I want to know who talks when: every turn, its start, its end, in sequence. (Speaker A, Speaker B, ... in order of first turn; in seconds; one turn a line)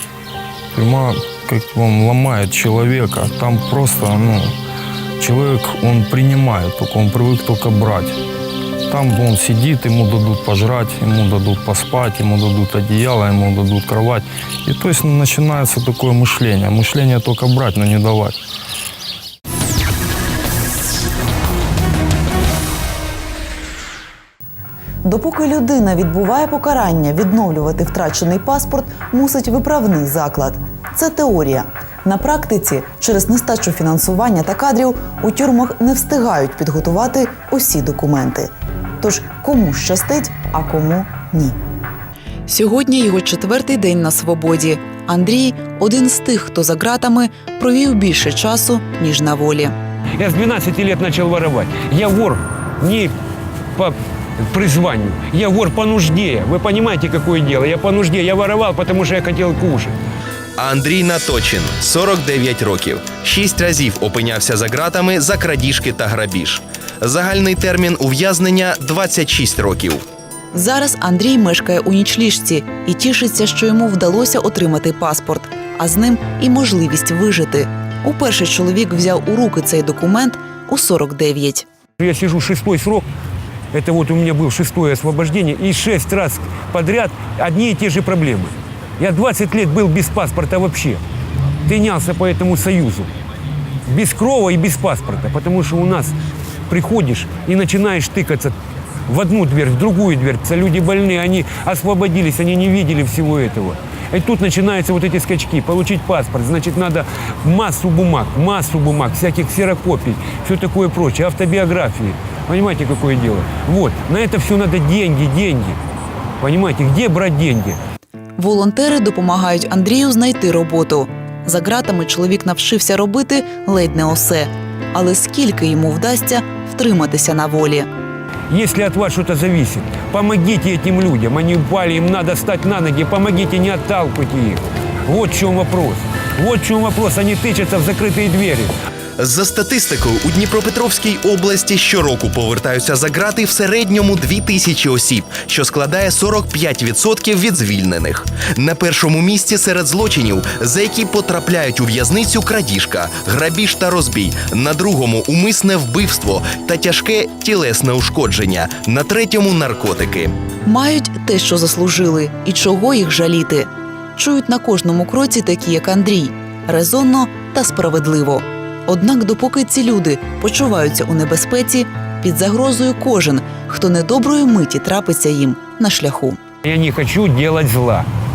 Speaker A: 0.7-4.5
Speaker A: 5.2-8.2
Speaker A: 8.9-18.4
Speaker B: 25.0-41.6
Speaker B: 42.5-49.7
Speaker C: 50.2-53.1
Speaker C: 54.5-60.0
Speaker D: 60.6-70.0
Speaker B: 70.5-81.7
Speaker C: 82.0-83.1
Speaker C: 83.7-91.0
Speaker C: 91.7-93.1
Speaker C: 93.9-96.1
Speaker C: 96.7-98.5
Speaker C: 99.1-115.8
Speaker C: 116.4-117.8
Speaker B: 118.4-127.9
Speaker C: 128.5-138.7
Speaker D: 139.2-160.3
Speaker B: 160.7-176.4
Speaker C: 176.6-178.1